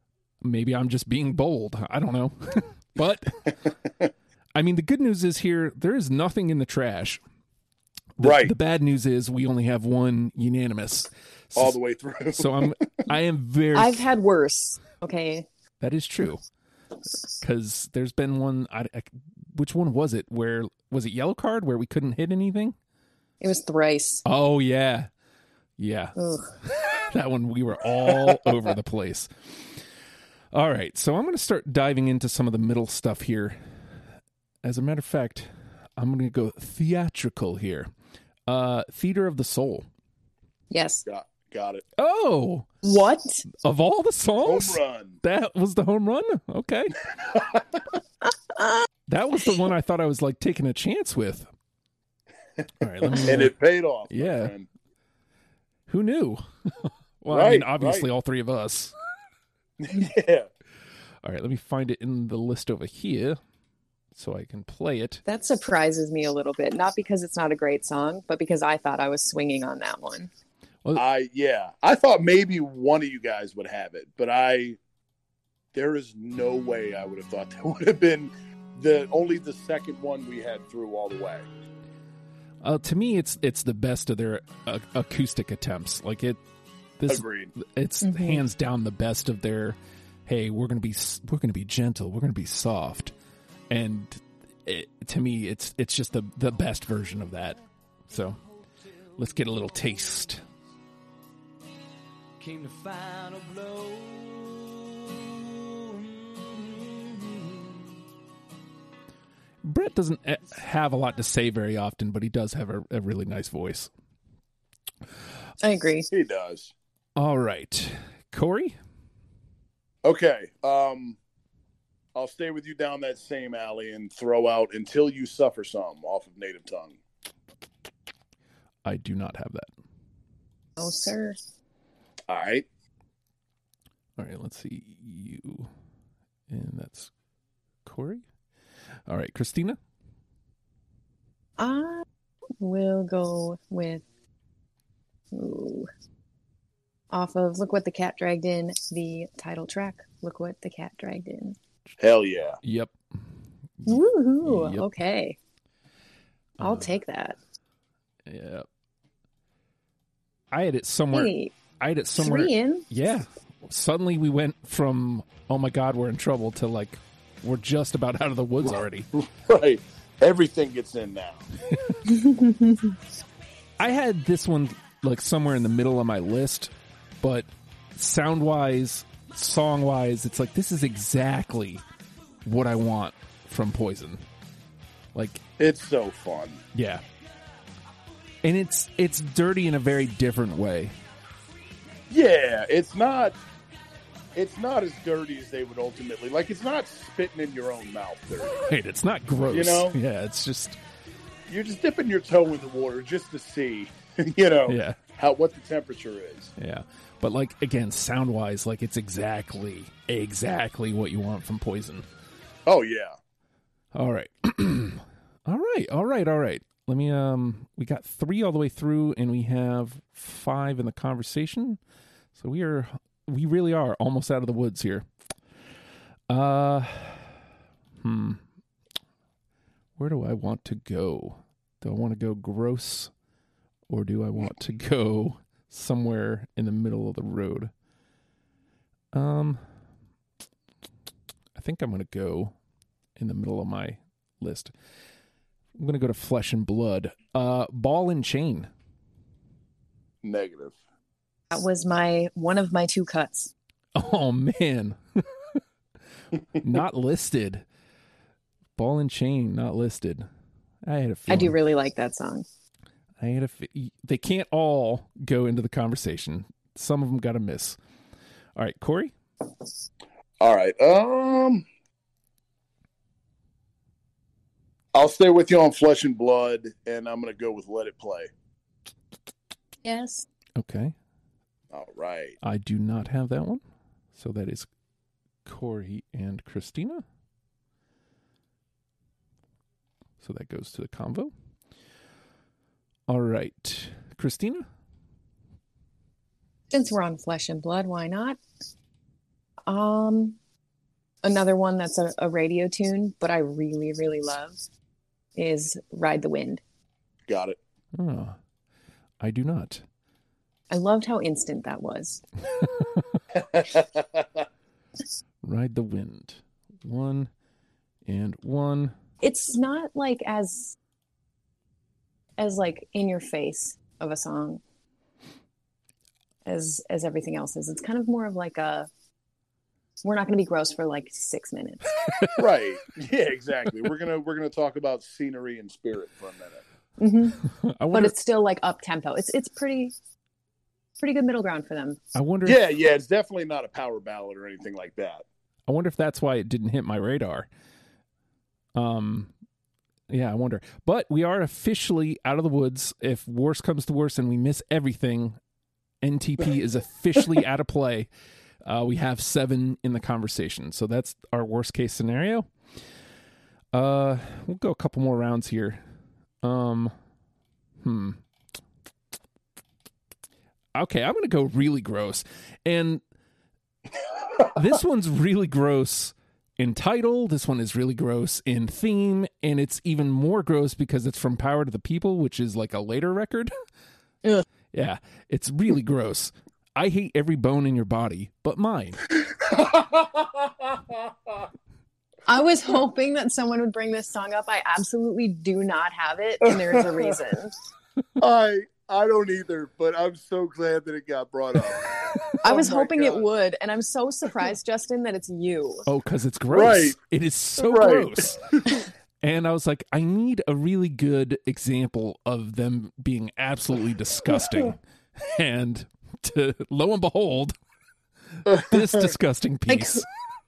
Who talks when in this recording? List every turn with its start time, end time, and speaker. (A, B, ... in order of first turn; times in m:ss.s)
0:00.4-0:03.6 A
0:04.5-0:07.2 A
0:08.2-0:11.8 A
0:08.2-0:08.5 B
0:11.6-0:12.9 B
0:12.3-0:14.1 A
0:13.7-0:15.4 C
0:15.8-0:16.4 A
0:17.4-0:22.8 A
0:23.4-0:24.2 C
0:24.2-0:25.1 A
0:25.8-0:29.8 A
0:26.2-0:26.5 C
0:30.5-0:33.8 A
0:34.6-0:37.9 A
0:38.4-0:39.9 A
0:40.7-0:41.0 C
0:41.0-0:41.8 B
0:42.0-0:42.7 A
0:42.8-0:43.4 C
0:43.5-0:47.0 A
0:44.4-0:45.2 B
0:47.2-0:47.9 B
0:48.5-0:48.8 C
0:49.1-0:51.5 A
0:52.8-0:53.5 A
0:53.2-0:54.7 B
0:54.1-0:54.5 A
0:55.9-0:58.9 A
0:57.3-0:58.0 B
0:59.8-1:00.5 B
1:01.2-1:03.4 A
1:04.1-1:05.2 A
1:05.2-1:10.3 C
1:10.9-1:14.8 B
1:15.7-1:21.4 B
1:22.6-1:26.4 A
1:27.0-1:33.1 A
1:27.1-1:27.5 B
1:28.0-1:28.4 C
1:33.7-1:37.6 A
1:38.1-1:38.4 A
1:38.1-1:40.2 D
1:39.2-1:40.4 A
1:42.4-1:48.0 D
1:49.6-1:53.9 A
1:55.6-1:56.1 C
1:56.1-1:56.7 B
1:57.2-1:58.8 A
2:00.0-2:01.2 B
2:02.1-2:07.0 B
2:08.8-2:09.7 A
2:10.8-2:11.4 C
2:12.3-2:12.6 B
2:14.2-2:15.7 A
2:16.5-2:17.1 A
2:17.8-2:18.2 A
2:19.1-2:19.8 A
2:21.6-2:22.0 C
2:22.6-2:24.0 C
2:25.3-2:25.9 C
2:27.1-2:31.6 C
2:32.0-2:32.6 B
2:32.6-2:33.0 A
2:33.8-2:34.8 A
2:33.8-2:35.4 C
2:36.6-2:36.9 A
2:36.6-2:37.4 C
2:38.2-2:38.6 A
2:40.5-2:49.1 A
2:41.1-2:41.5 C
2:42.2-2:42.9 C
2:49.2-2:51.5 B
2:51.6-2:52.0 A
2:52.0-2:52.9 C
2:53.8-3:01.8 A
3:02.4-3:04.2 A
3:05.1-3:05.4 A
3:05.6-3:06.6 B
3:06.7-3:07.0 A
3:08.4-3:10.9 A
3:11.3-3:12.0 D
3:12.1-3:13.3 B
3:14.4-3:18.6 B
3:18.6-3:20.8 A
3:19.5-3:20.0 B
3:21.5-3:26.5 B
3:24.6-3:25.0 A
3:26.6-3:32.0 A
3:32.6-3:33.2 B
3:33.9-3:41.8 A
3:42.3-3:45.1 A
3:46.3-3:47.4 A
3:48.0-3:48.4 A
3:50.0-3:53.1 A
3:53.9-3:57.7 A
3:59.1-3:59.6 A
4:01.5-4:02.5 A
4:03.2-4:04.7 A
4:05.8-4:08.7 A
4:10.2-4:10.7 B
4:11.5-4:13.5 C
4:13.9-4:15.6 A
4:16.6-4:17.6 A
4:18.8-4:20.3 A
4:20.8-4:21.6 A
4:21.3-4:22.4 C
4:23.2-4:27.8 A
4:28.6-4:29.1 A
4:30.4-4:31.6 B
4:34.9-4:38.3 B
4:39.8-4:40.3 C
4:40.6-4:40.9 A
4:41.7-4:42.4 B
4:42.4-4:43.6 A
4:44.1-4:44.7 A
4:45.4-4:47.0 A
4:50.2-4:51.3 A
4:53.1-4:54.7 A
4:56.7-4:58.4 C
4:59.7-5:00.4 C
5:01.2-5:04.7 C
5:05.3-5:06.6 C
5:07.3-5:07.6 B
5:07.9-5:08.4 A
5:09.2-5:09.8 A
5:10.7-5:12.2 C
5:12.6-5:13.2 A
5:13.4-5:14.2 B
5:15.4-5:17.3 A
5:18.0-5:18.9 A
5:19.2-5:20.8 C
5:22.4-5:24.6 C
5:26.4-5:28.9 C
5:30.0-5:31.9 C
5:32.0-5:32.5 A
5:32.4-5:36.6 B
5:37.0-5:37.4 C
5:37.4-5:38.1 A
5:37.9-5:39.9 C
5:41.0-5:42.0 C
5:42.1-5:42.6 A
5:42.4-5:45.2 B
5:45.7-5:47.5 A
5:48.7-5:49.3 A
5:50.1-5:55.4 A
5:56.0-5:58.1 A
5:58.6-6:02.5 A
6:03.7-6:05.8 A
6:06.4-6:06.9 A
6:07.8-6:08.2 A
6:10.7-6:13.0 A
6:14.4-6:23.5 A
6:24.7-6:29.1 A
6:29.2-6:31.4 B
6:32.2-6:37.6 C
6:36.4-6:36.9 B
6:38.2-6:43.2 B
6:42.4-6:45.9 C
6:45.9-6:48.6 A
6:46.5-6:47.0 B
6:47.6-6:48.8 B
6:49.2-6:57.5 A
6:58.3-7:00.1 A
6:58.5-6:58.8 B
6:59.7-7:00.0 C